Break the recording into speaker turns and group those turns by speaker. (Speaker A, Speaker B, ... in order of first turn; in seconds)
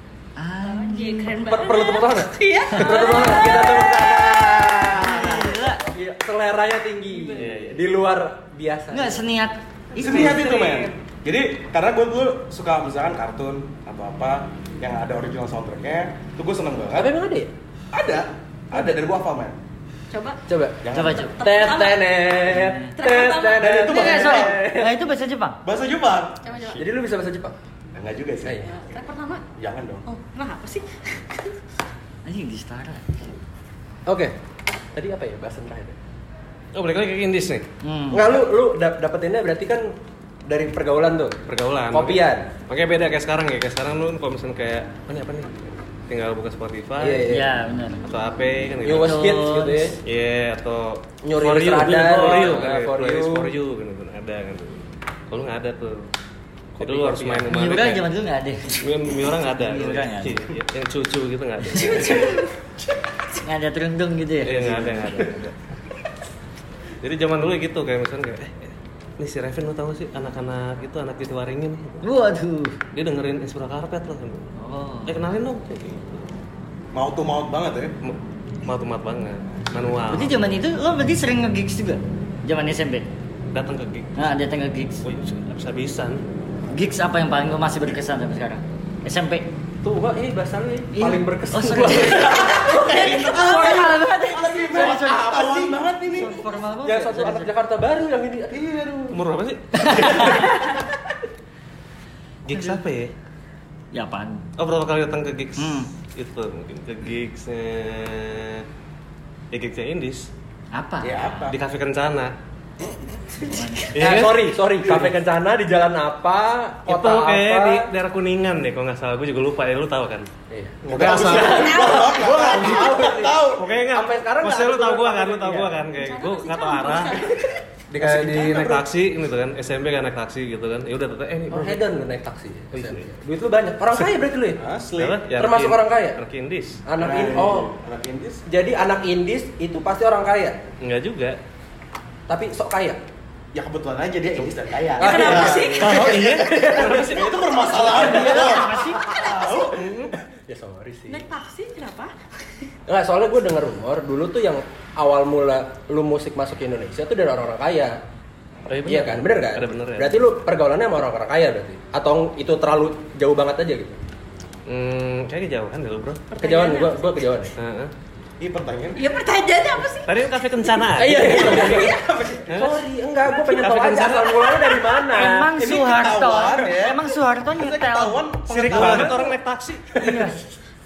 Speaker A: 0.4-1.4, 2.8-3.2, 4.9-5.8, 8.9-10.5, 20.9-21.4, 22.5-22.9, 23.9-25.6, 32.2-33.2, 37.8-38.3, 47.3-48.0, 49.0-50.0, 57.5-58.9, 59.5-60.5, 61.8-62.3, 63.4-65.2, 72.0-72.8, 74.6-75.2, 80.1-83.1, 84.2-85.0, 86.7-89.5, 90.9-92.7, 93.2-97.5, 99.7-100.8, 103.9-104.5, 105.6-105.9, 110.7-111.5, 113.4-114.0, 147.8-149.1, 175.1-178.2, 180.0-180.4
Speaker B: 0.6-5.0, 7.1-7.5, 10.0-10.9, 20.1-20.4, 21.1-22.4, 22.9-23.9, 26.4-26.9, 28.6-29.4, 30.1-31.5, 92.2-94.9, 121.6-122.7, 125.9-127.6, 145.0-146.1, 151.1-152.1, 166.3-167.2, 169.0-172.1
Speaker C: 1.5-9.2, 16.9-17.5, 20.5-20.8, 21.4-25.0, 26.8-27.6, 34.1-34.4, 34.9-36.0, 38.1-39.9, 40.5-41.4, 41.9-42.5, 47.0-47.5, 48.8-50.0, 51.2-53.5, 56.8-57.5, 64.6-64.9, 89.8-93.0, 94.9-95.5, 96.8-98.8, 100.0-100.5, 114.0-117.9, 120.5-125.8, 128.0-128.6, 131.5-134.6, 135.4-136.2, 136.9-137.7, 138.5-140.6, 142.3-143.0, 145.0-149.2, 149.9-151.2, 152.9-158.0, 158.8-164.0, 166.4-167.6, 171.0-175.8, 178.7-179.3, 179.9-180.3
Speaker D: 7.3-7.9, 36.7-37.7, 41.5-47.3, 48.0-49.4, 50.0-56.1, 56.8-58.1, 58.8-62.5, 64.4-65.5, 67.0-72.0, 72.9-74.5, 75.1-76.3, 78.0-80.4, 83.5-84.3, 85.0-86.2, 99.1-100.5, 102.5-103.1, 104.6-108.6, 109.5-110.3, 111.5-112.3, 114.0-115.1, 116.9-120.3, 120.8-121.8, 123.6-127.2, 127.9-131.9, 132.7-133.1, 135.0-136.8, 140.8-141.4, 145.8-147.0, 149.9-150.1, 158.7-160.3, 164.7-166.3, 167.6-167.9, 170.0-171.9, 172.5-172.9, 173.4-174.7, 178.5-179.9
Speaker E: 10.0-17.1, 17.9-19.6, 20.8-21.3, 23.5-24.6, 25.6-26.4, 27.9-28.8, 29.6-30.0, 76.9-77.9, 92.3-96.4, 98.5-99.2, 111.0-111.6, 120.9-123.7, 128.0-128.8, 134.6-135.2, 137.0-138.4, 143.5-149.9, 168.4-169.1, 175.6-179.2